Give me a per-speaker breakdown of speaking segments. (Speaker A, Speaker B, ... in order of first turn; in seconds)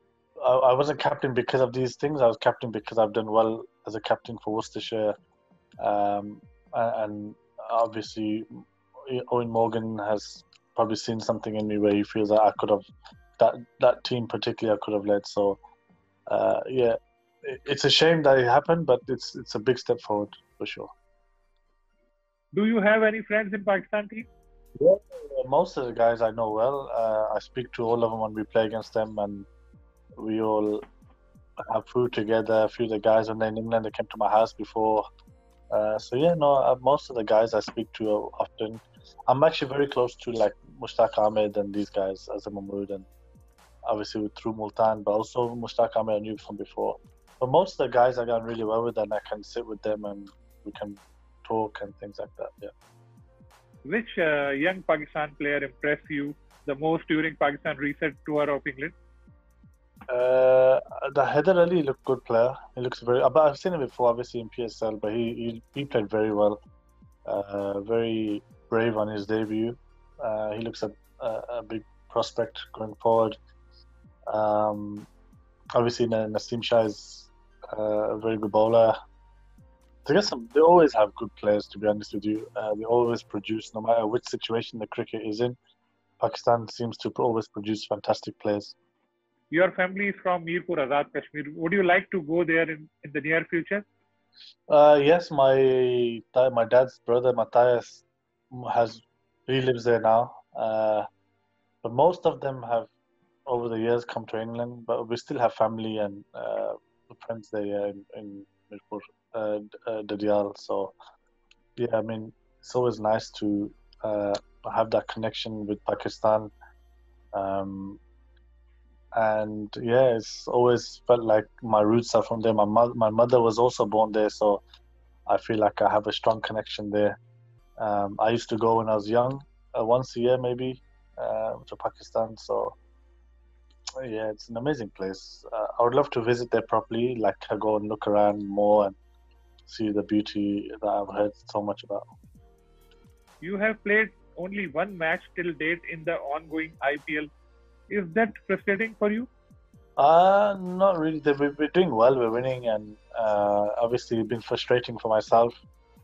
Speaker A: 0.4-5.1, 5.8-12.8, 13.4-15.6, 16.3-20.9, 24.8-29.5, 30.2-30.8, 31.6-35.1, 35.7-43.1, 43.8-52.7, 60.1-66.6, 67.2-73.4, 74.3-75.1, 75.7-79.0, 80.0-85.6, 86.2-88.8, 94.7-101.1, 101.8-102.9, 103.5-110.9, 111.8-116.5, 117.3-118.0, 119.1-124.6, 125.3-127.2, 127.8-132.8, 134.0-138.9, 139.6-142.1, 150.0-155.6
Speaker B: 22.5-24.3, 53.9-58.9, 89.5-93.8, 143.4-147.3, 147.9-149.3